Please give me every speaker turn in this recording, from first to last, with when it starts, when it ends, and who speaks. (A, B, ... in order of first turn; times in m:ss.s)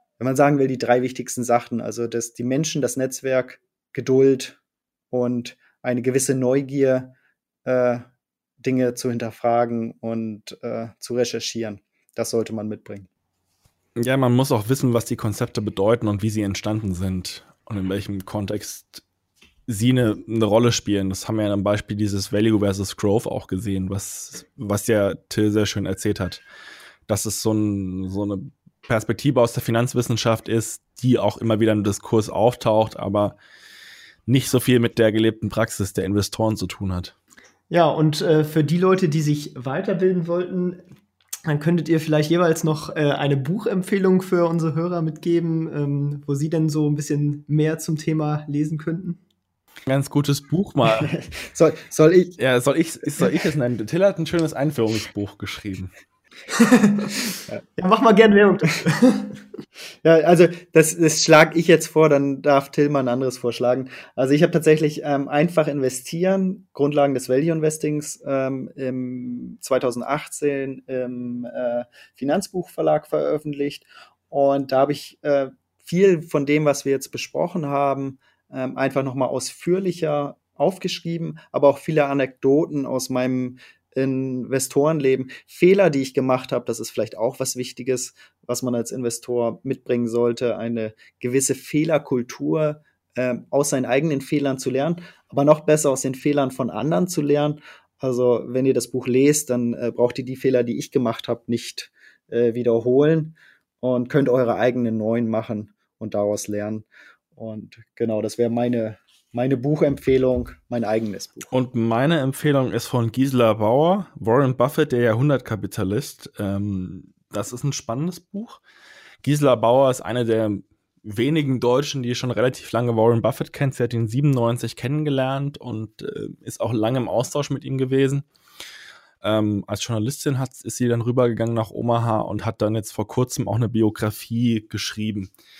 0:00.2-0:04.6 A
0:05.1-0:08.0 A
0:08.6-0:13.1 A
0:14.0-0:19.0 B
0:19.7-0:26.4 B
0:27.1-0:33.4 B
0:34.3-0:37.1 B
0:37.7-0:40.8 C
0:41.5-0:49.2 C
0:49.9-0:51.1 B
0:50.9-0:52.4 A
0:52.4-0:55.9 B
0:56.6-0:57.1 C
0:57.8-0:59.4 C
1:00.0-1:51.5 A
1:51.5-1:58.6 B
1:59.2-2:08.2 B
2:09.2-2:15.3 B